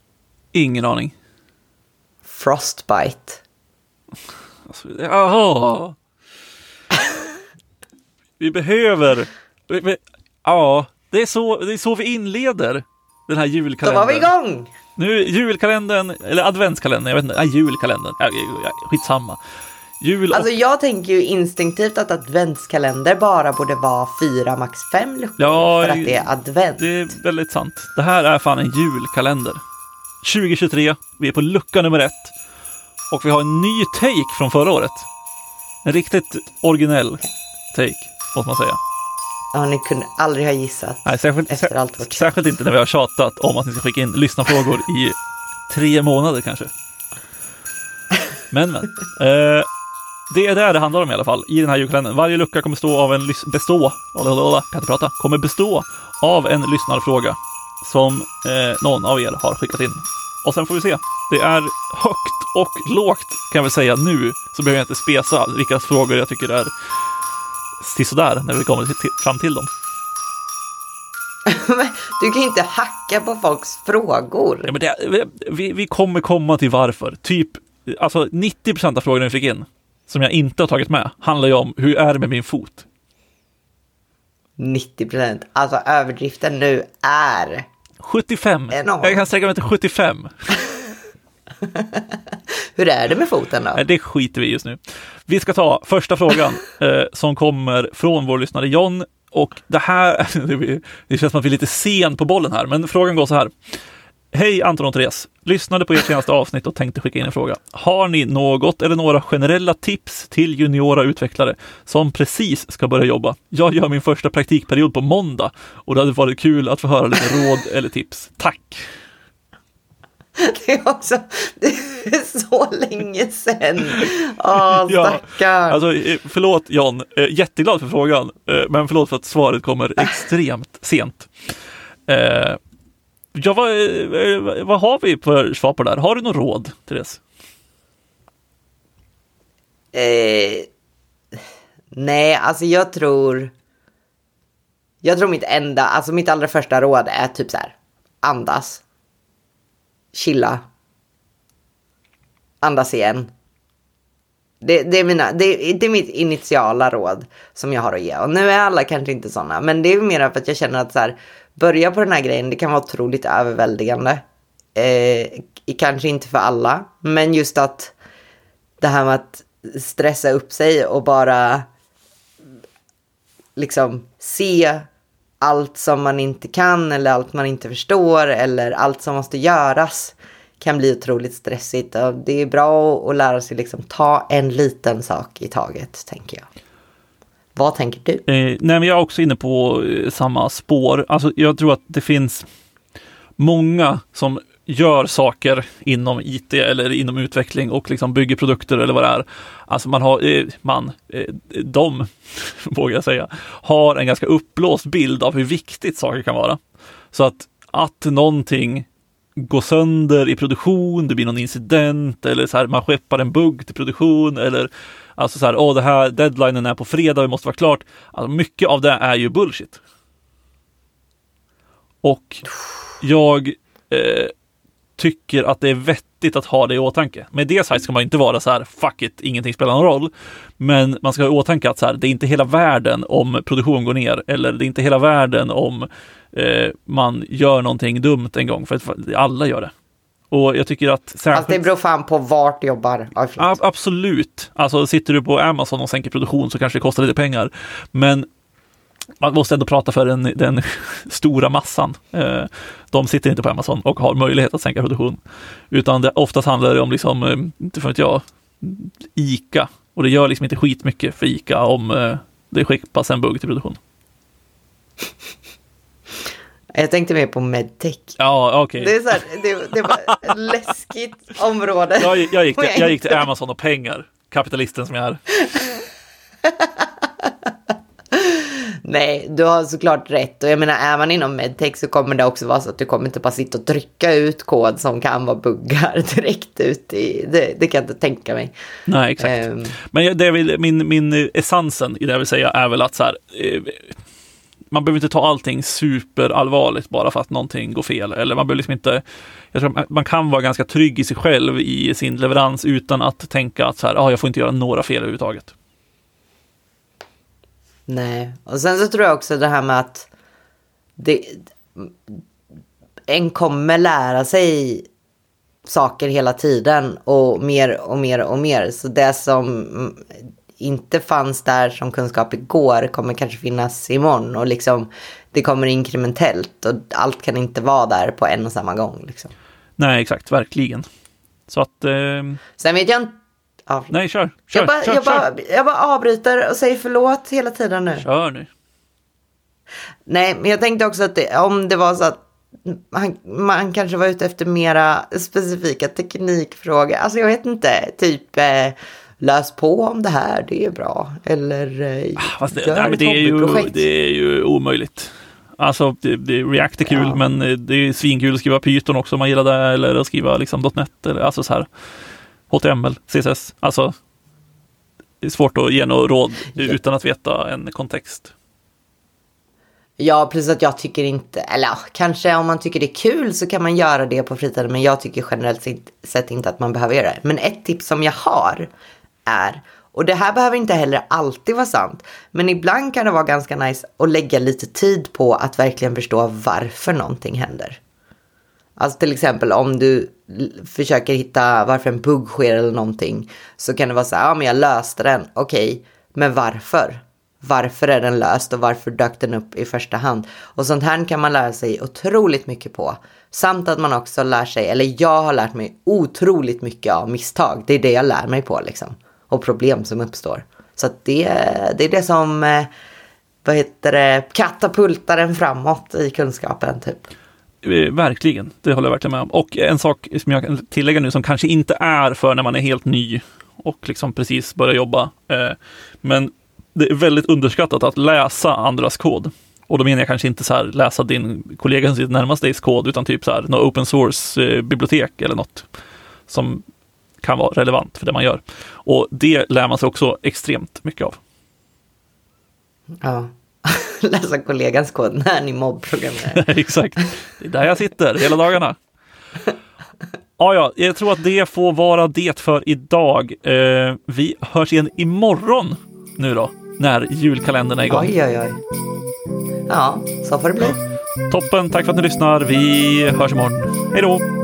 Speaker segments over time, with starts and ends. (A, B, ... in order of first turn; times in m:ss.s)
0:00.5-0:01.1 A
0:02.2-0:03.4 B
0:04.7-0:06.0 A
0:08.4-0:14.3 A
0:13.8-0:14.7 B
0:15.0-0:19.4 A
0:20.0-0:20.5 A
0:20.3-0:26.9 B
0:25.4-0:29.6 A
0:30.2-0:32.3 A
0:33.1-0:35.1 A
0:35.8-0:38.8 A
0:39.5-0:42.3 B
0:41.0-0:45.1 A
0:45.7-0:46.7 A
0:48.5-0:49.6 A
0:50.3-1:06.7 A
1:07.8-1:09.7 A
1:11.4-1:14.7 B
1:14.6-1:22.8 A
1:24.6-1:27.6 B
1:28.0-1:30.5 A
1:28.7-1:29.3 B
1:31.7-1:32.2 B
1:32.8-1:33.8 B
1:33.7-1:43.5 A
1:44.3-1:58.8 A
2:00.4-2:05.8 B
2:03.9-2:11.3 A
2:12.1-2:12.6 A
2:13.3-2:17.2 A
2:19.9-2:20.7 B
2:21.9-2:23.5 B
2:25.0-2:28.8 B
2:30.1-2:30.6 B
2:32.6-2:33.3 B
2:34.6-2:44.2 B
2:44.8-2:47.9 B
2:48.8-2:51.7 B
2:53.6-2:54.8 B
2:55.4-3:06.4 B
3:07.6-3:08.2 B
3:08.3-3:12.4 A
3:13.4-3:26.6 A
3:27.1-3:28.9 A
3:29.4-3:39.8 A
3:42.0-3:44.3 A
3:45.0-3:59.7 A
4:00.3-4:01.6 A
4:01.3-4:03.6 B
4:03.4-4:08.3 A
4:09.2-4:15.2 A
4:15.7-4:23.8 A
4:26.7-4:28.2 B
4:28.2-4:29.2 A
4:28.8-4:33.2 B
4:29.8-4:30.2 A
4:32.0-4:35.2 A
4:35.5-4:35.8 B
4:36.4-4:37.3 B
4:38.1-4:48.5 B
4:48.9-4:54.0 A
4:49.2-4:49.8 B
4:54.7-5:05.5 A
5:07.9-5:10.1 B
5:11.0-5:12.1 B
5:13.1-5:14.8 B
5:15.6-5:29.3 B
5:29.8-5:30.8 A
5:31.5-5:32.4 A
5:32.6-5:33.1 B
5:33.7-5:33.9 B
5:33.9-5:35.2 A
5:34.5-5:38.0 B
5:38.0-5:38.5 A
5:40.1-5:53.8 B
5:52.2-6:01.7 A
5:56.8-5:57.2 B
6:02.5-6:03.9 A
6:05.2-6:08.3 A
6:10.0-6:18.7 B
6:19.3-6:27.8 B
6:28.8-6:52.7 B
6:53.4-6:57.1 B
6:57.6-7:15.7 A
7:16.3-7:16.6 A
7:17.2-7:21.2 A
7:23.0-7:26.4 B
7:26.3-7:28.8 A
7:30.4-7:38.1 A
7:37.8-7:38.6 B
7:39.7-7:40.8 B
7:41.3-7:44.2 A